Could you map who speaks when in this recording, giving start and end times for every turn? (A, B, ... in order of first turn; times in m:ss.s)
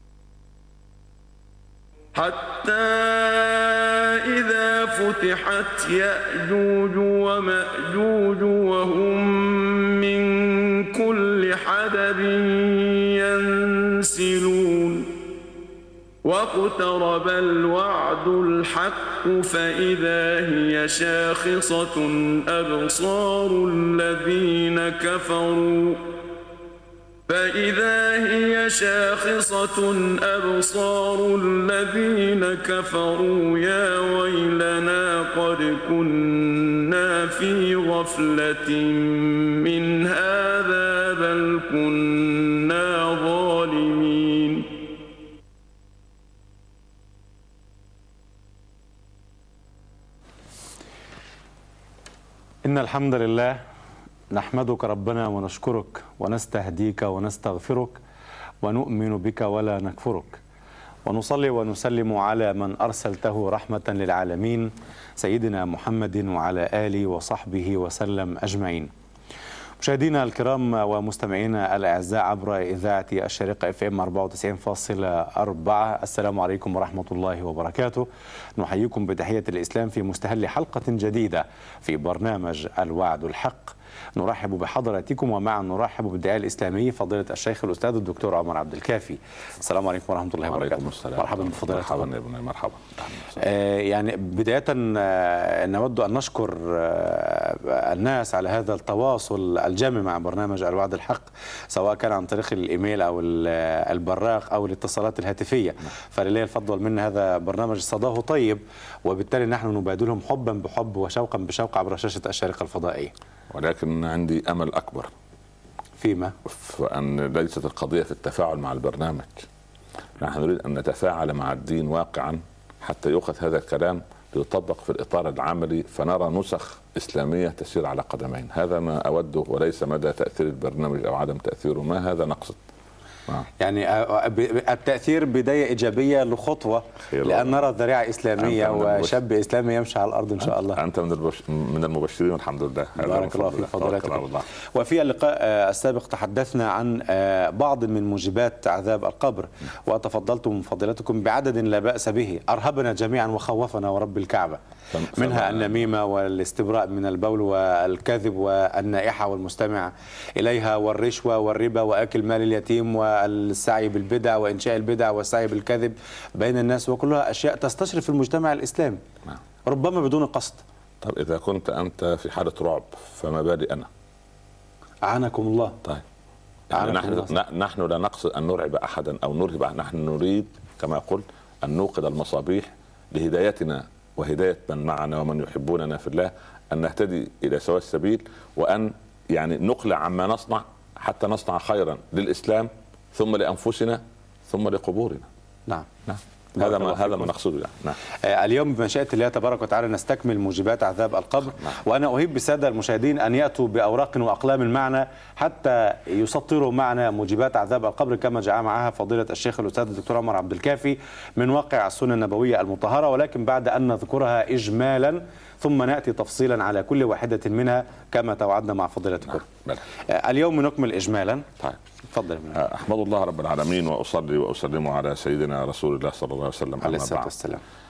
0:02.1-0:15.1 A
0:16.2-0:26.0 A
0:27.3-0:44.7 A
0:52.6-0:53.6 B
0:54.3-0:58.0 B
0:58.6-1:00.4 B
1:01.0-1:08.9 B
1:09.8-1:32.1 B
1:30.5-1:33.4 C
1:33.4-1:53.1 B
1:53.5-1:55.1 C
1:56.0-1:56.4 B
1:56.5-1:59.5 C
2:00.2-2:12.6 C
2:13.6-2:20.8 B
2:17.1-2:17.6 C
2:18.4-2:19.2 C
2:20.4-2:24.5 C
2:23.0-2:34.6 B
2:34.9-2:35.9 C
2:35.1-2:49.0 B
2:49.7-2:50.6 B
2:51.0-2:53.9 C
2:55.0-2:55.8 B
2:56.7-3:15.3 C
2:56.7-2:57.4 B
3:16.1-3:18.0 C
3:16.6-3:17.3 B
3:18.2-3:41.5 B
3:42.1-3:42.6 B
3:42.5-3:47.3 C
3:46.8-3:47.6 B